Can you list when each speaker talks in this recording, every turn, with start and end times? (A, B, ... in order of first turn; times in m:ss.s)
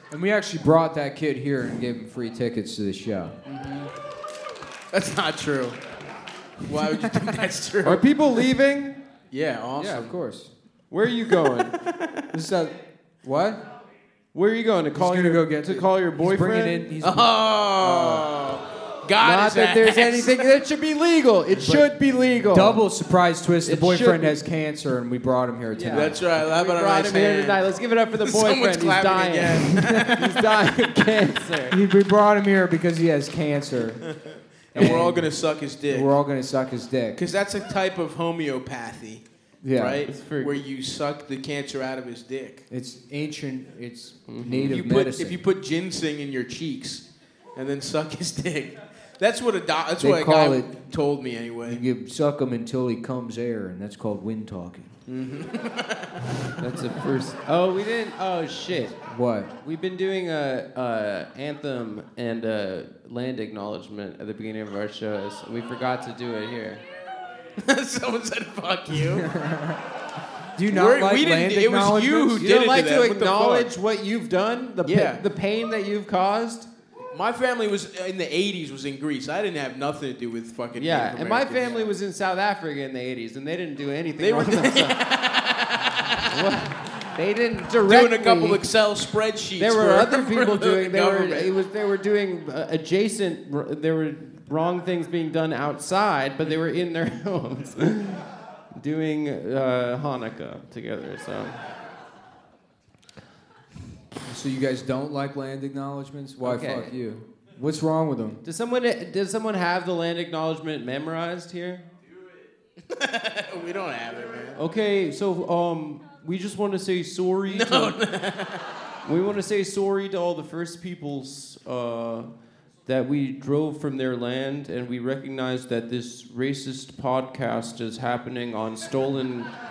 0:00.1-0:03.4 A
0:03.5-0:03.9 B
0:04.9-0:05.8 B
0:06.6-0:08.0 B
0:07.8-0:09.0 C
0:09.3-0:10.1 B
0:09.8-0:10.5 A
0:10.9-0:11.8 C
0:12.3-0:13.6 A
0:14.3-0:16.9 C
0:15.0-0:18.2 A
0:17.0-0:20.4 B
0:19.2-0:22.8 C
0:21.6-0:21.9 A
0:22.5-0:26.2 A
0:23.6-0:24.4 C
0:25.8-0:31.8 C
0:25.9-0:27.7 B
0:28.2-0:30.6 B
0:31.7-0:34.1 A
0:34.7-0:35.3 A
0:34.7-0:36.1 B
0:35.9-0:37.2 A
0:37.2-0:39.2 B
0:39.6-0:40.1 A
0:39.8-0:42.6 B
0:40.1-0:40.6 C
0:42.7-0:45.4 A
0:44.3-0:44.8 C
0:44.6-0:47.0 B
0:47.6-0:51.8 B
0:50.0-0:50.7 A
0:51.7-0:54.9 A
0:55.1-0:56.3 B
0:56.6-0:59.0 C
0:59.0-0:59.5 A
0:59.6-1:06.8 C
1:07.6-1:09.3 B
1:09.1-1:09.8 A
1:10.6-1:12.4 A
1:10.7-1:13.7 B
1:12.4-1:16.7 C
1:14.8-1:15.2 B
1:17.1-1:21.9 B
1:20.8-1:25.0 C
1:24.2-1:26.6 B
1:26.2-1:28.6 C
1:27.8-1:31.5 B
1:29.6-1:41.6 C
1:44.3-1:48.4 A
1:46.4-1:46.9 C
1:48.4-1:51.9 C
1:52.9-1:54.6 B
1:54.6-1:58.0 C
1:57.5-1:58.7 B
1:59.0-2:02.3 C
2:02.9-2:09.5 C